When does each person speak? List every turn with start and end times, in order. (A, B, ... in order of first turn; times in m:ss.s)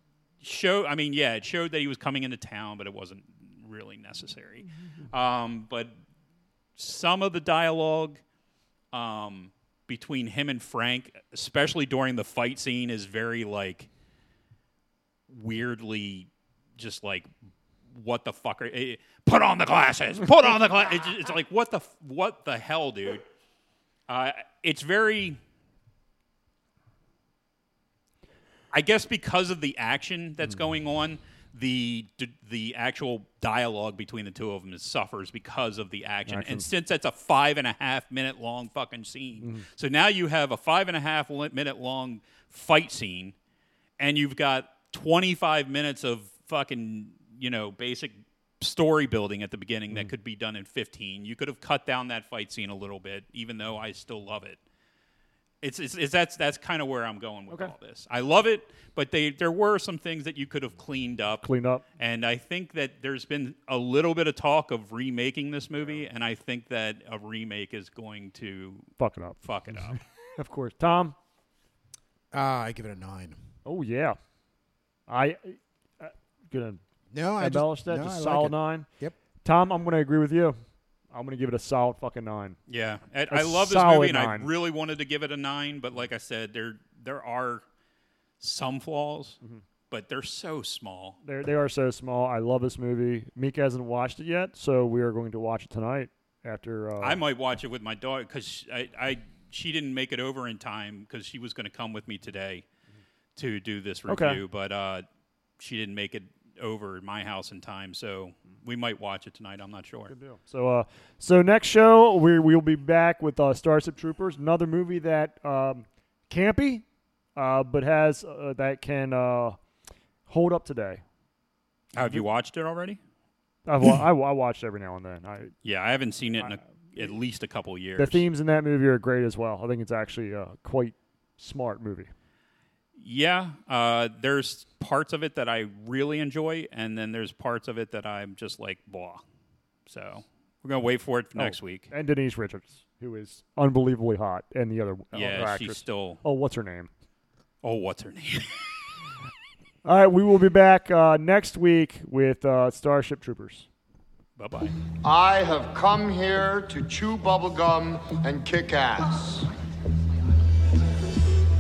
0:00.4-0:05.9 A
0:06.8-0:08.2 A
0:08.9-0:13.9 A
0:15.3-0:17.3 A
0:17.9-0:23.2 A
0:24.1-0:25.4 A
0:28.7-0:43.4 A
0:36.3-0:36.7 B
0:44.0-0:54.6 A
0:55.6-1:08.9 A
1:01.4-1:01.8 B
1:09.0-1:11.2 B
1:09.4-1:10.0 A
1:12.3-1:13.4 C
1:13.7-1:14.2 B
1:15.1-1:16.8 B
1:17.1-1:19.2 C
1:17.4-1:18.9 B
1:19.4-1:20.6 B
1:21.1-1:22.6 B
1:22.7-1:27.6 A
1:23.3-1:24.5 B
1:28.4-1:29.4 A
1:29.9-1:31.2 A
1:31.2-1:37.2 B
1:37.0-1:42.6 A
1:43.4-1:45.0 A
1:44.1-1:44.4 B
1:45.6-1:50.1 A
1:50.1-1:56.8 B
1:57.4-1:59.6 B
2:00.3-2:01.0 B
2:02.0-2:03.0 A
2:03.7-2:05.5 B
2:05.6-2:08.2 A
2:08.0-2:12.1 B
2:13.0-2:19.2 A
2:19.9-2:21.9 A
2:21.4-2:26.9 B
2:25.1-2:26.2 A
2:27.6-2:28.6 A
2:29.8-2:33.7 B
2:34.4-2:34.8 A
2:35.0-2:39.5 D